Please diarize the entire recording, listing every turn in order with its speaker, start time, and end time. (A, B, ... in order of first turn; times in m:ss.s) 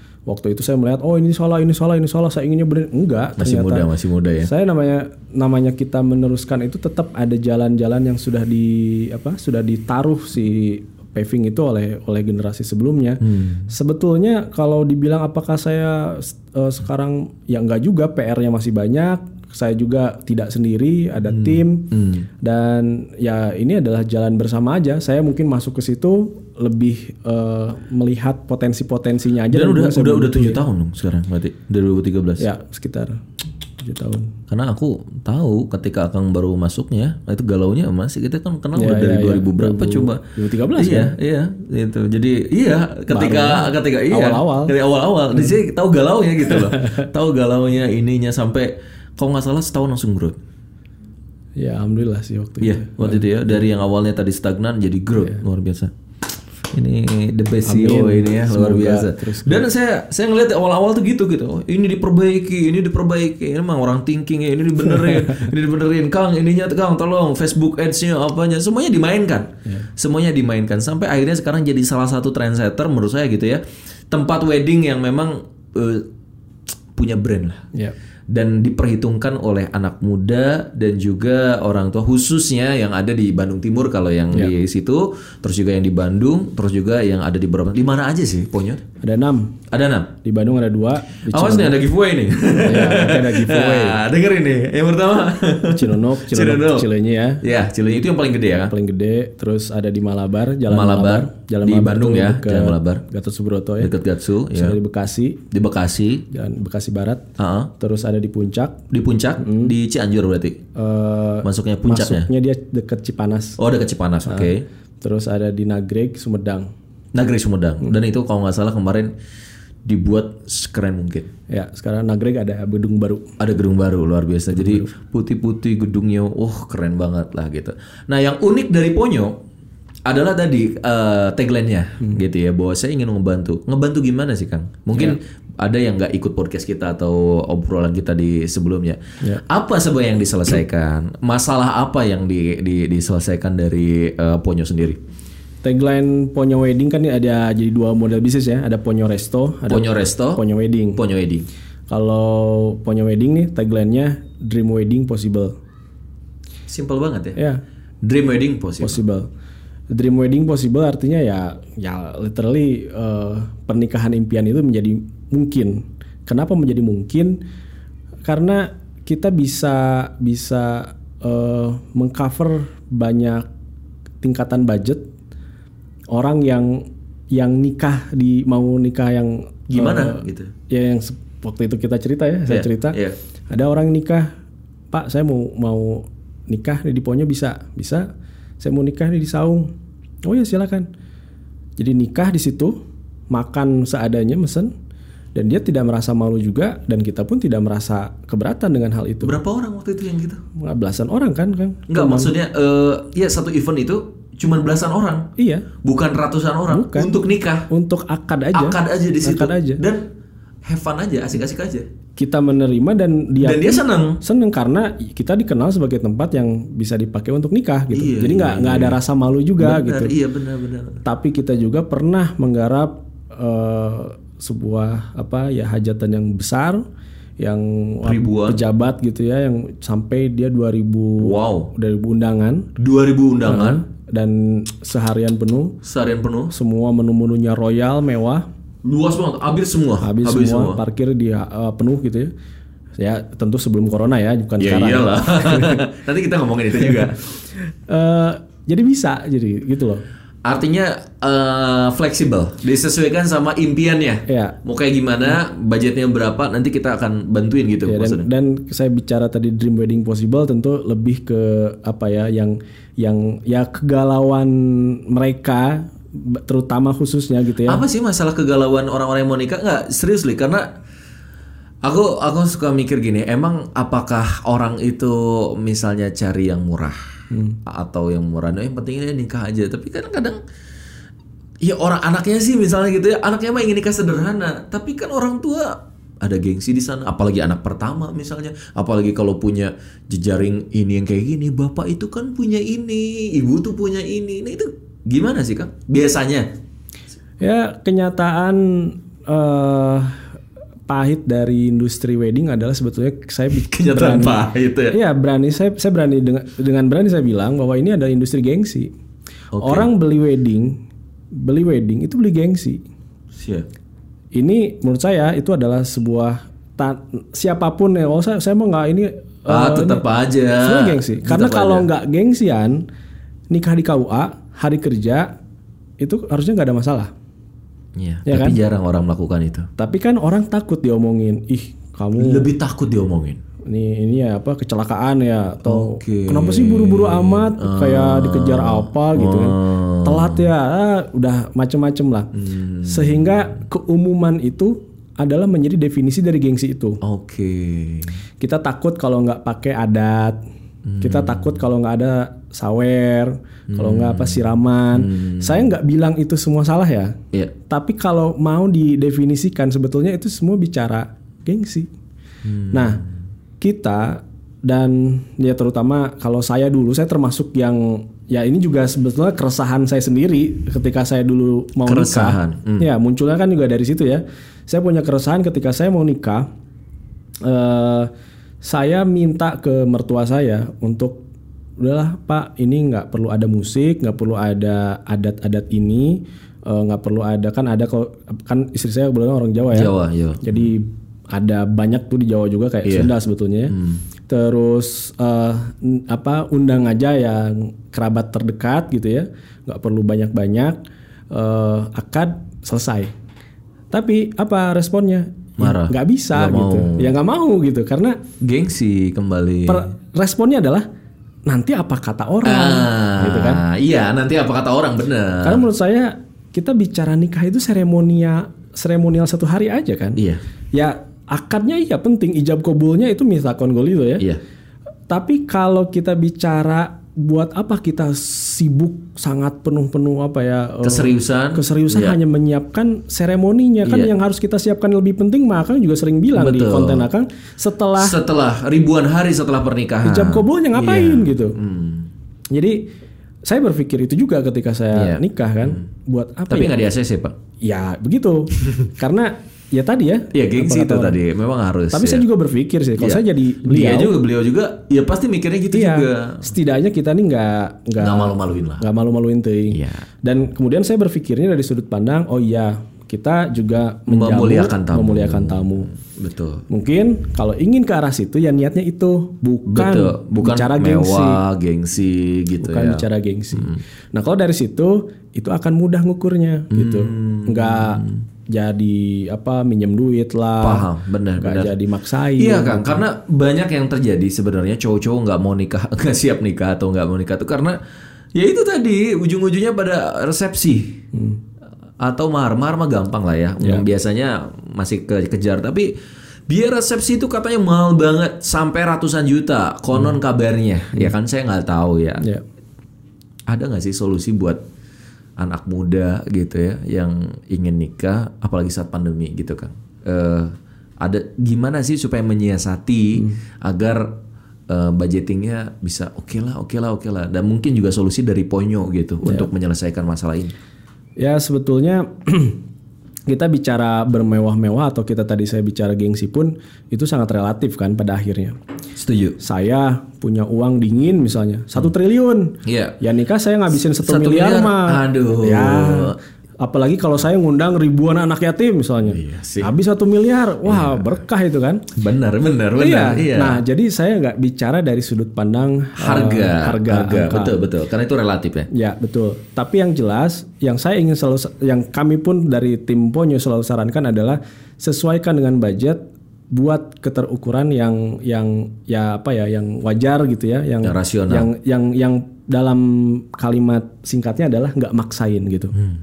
0:00.3-0:03.9 A
0:03.4-0:04.5 B
0:04.4-0:21.9 A
0:13.2-0:13.7 B
0:21.3-0:22.3 B
0:22.4-0:30.6 A
0:29.5-0:32.5 B
0:32.4-0:33.2 A
0:33.8-0:34.3 A
0:34.5-0:40.2 B
0:38.8-0:41.2 A
0:40.8-0:50.4 B
0:43.1-0:44.7 A
0:46.6-0:47.1 A
0:51.6-0:53.3 A
0:52.6-0:55.9 B
0:56.7-1:16.1 B
0:57.6-0:59.7 A
1:17.0-1:17.7 B
1:18.3-1:28.8 B
1:29.0-1:29.6 A
1:29.7-1:30.2 B
1:30.2-1:31.8 A
1:31.3-1:36.9 B
1:32.6-1:34.0 A
1:35.7-1:37.4 A
1:37.4-1:38.7 B
1:38.7-1:43.9 A
1:40.7-1:43.0 B
1:43.8-1:44.8 B
1:44.5-1:45.4 A
1:45.5-1:46.2 B
1:46.3-1:47.2 A
1:47.4-1:47.7 B
1:47.8-1:48.8 A
1:48.9-1:50.6 B
1:49.4-1:49.7 A
1:50.8-1:53.6 A
1:51.4-1:52.3 B
1:53.6-1:54.6 B
1:54.2-1:56.7 A
1:57.1-1:59.1 B
1:59.8-2:01.3 B
2:01.5-2:03.4 A
2:03.4-2:09.4 B
2:04.6-2:04.9 A
2:10.1-2:25.0 B
2:25.6-2:31.0 A
2:29.7-2:30.4 B
2:31.0-2:31.5 B
2:31.9-2:35.5 A
2:36.7-2:37.4 B
2:37.4-2:37.6 A
2:38.0-2:39.0 B
2:38.8-2:39.3 A
2:39.9-2:47.4 A
2:48.2-2:53.5 A
2:54.2-2:55.0 A
2:56.1-3:03.0 A
2:59.7-3:00.5 B
3:02.5-3:03.2 B
3:03.5-3:04.3 A
3:04.9-3:08.1 A
3:08.6-3:09.7 A
3:10.2-3:10.9 A
3:11.8-3:12.8 A
3:13.3-3:14.7 A
3:15.4-3:19.4 A
3:19.2-3:20.4 B
3:20.6-3:22.3 A
3:21.9-3:25.3 B
3:25.4-3:25.7 A
3:25.8-3:27.7 B
3:26.7-3:27.2 A
3:27.7-3:29.8 A
3:28.5-3:30.1 B
3:30.6-3:31.9 B
3:32.2-3:40.2 A
3:33.4-3:34.2 B
3:37.9-3:39.0 B
3:39.6-3:41.0 B
3:41.0-3:46.8 A
3:47.4-3:52.7 A
3:48.0-3:48.6 B
3:51.2-3:51.7 B
3:52.8-3:53.8 B
3:53.4-3:55.8 A
3:55.8-3:56.5 B
3:56.5-3:58.4 A
3:58.8-4:00.8 B
4:00.0-4:02.3 A
4:03.0-4:05.8 A
4:04.6-4:07.2 B
4:06.8-4:07.2 A
4:07.9-4:10.0 A
4:10.4-4:18.3 B
4:14.3-4:14.6 A
4:17.9-4:27.8 A
4:27.6-4:30.7 B
4:31.8-4:37.0 B
4:37.3-4:37.6 A
4:37.6-4:40.4 B
4:41.6-4:56.5 B
4:57.4-5:00.2 A
5:00.9-5:08.9 A
5:03.5-5:05.0 B
5:09.5-5:09.9 B
5:09.6-5:10.8 A
5:11.3-5:12.8 A
5:13.3-5:13.7 B
5:14.4-5:20.0 A
5:19.5-5:21.9 B
5:20.6-5:22.8 A
5:23.5-5:25.3 A
5:26.0-5:27.1 A
5:28.0-5:29.7 B
5:28.3-5:28.6 A
5:29.8-5:32.5 A
5:32.2-5:33.4 B
5:33.7-5:42.3 A
5:35.6-5:40.5 B
5:42.3-5:43.5 B
5:42.8-5:47.0 A
5:47.0-5:48.2 B
5:48.4-5:50.4 A
5:50.9-5:51.6 B
5:51.0-5:57.2 A
5:53.7-5:55.7 B
5:57.7-6:01.9 A
6:02.4-6:03.0 B
6:02.7-6:03.0 A
6:03.6-6:16.5 A
6:11.8-6:12.9 B
6:17.4-6:18.1 A
6:18.6-6:21.2 A
6:21.8-6:33.8 A
6:29.7-6:30.6 B
6:32.8-6:33.1 B
6:33.7-6:34.0 B
6:34.3-6:40.8 A
6:41.3-6:43.1 A
6:43.9-6:48.2 A
6:45.6-6:47.1 B
6:48.4-6:49.9 B
6:49.7-6:50.8 A
6:51.5-6:53.6 A
6:52.4-6:55.6 B
6:55.4-7:00.2 A
7:00.7-7:04.3 A
7:05.1-7:18.2 A
7:10.8-7:12.2 B
7:13.8-7:14.1 B
7:16.4-7:17.1 B
7:18.0-7:22.1 B
7:20.0-7:21.6 A
7:22.5-7:22.9 A
7:23.4-7:26.7 A
7:24.9-7:25.8 B
7:26.5-7:27.4 B
7:27.6-7:31.2 A
7:30.3-7:32.2 B
7:31.9-7:34.2 A
7:33.0-7:36.5 B
7:35.7-7:45.9 A
7:38.0-7:38.8 B
7:39.7-7:40.0 B
7:44.1-7:46.6 B
7:46.7-7:51.4 A
7:49.7-7:53.8 B
7:52.6-8:00.9 A
7:56.7-7:58.2 B
8:00.6-8:01.8 B
8:01.4-8:03.0 A
8:02.4-8:07.8 B
8:08.4-8:11.0 B
8:11.1-8:11.4 A
8:12.0-8:15.9 B
8:13.6-8:13.8 A
8:16.5-8:22.3 B
8:23.5-8:24.6 B
8:25.4-8:34.2 B
8:34.7-8:40.5 B
8:41.2-8:42.6 A
8:43.3-8:48.6 A
8:49.0-8:49.4 B
8:49.4-9:01.8 A
8:52.6-8:53.0 B
8:54.0-8:56.2 B
8:59.0-8:59.7 B
9:00.7-9:01.1 B
9:02.0-9:03.6 B
9:02.8-9:07.6 A
9:06.0-9:08.7 B
9:08.7-9:16.0 A
9:16.5-9:25.8 A
9:20.8-9:21.5 B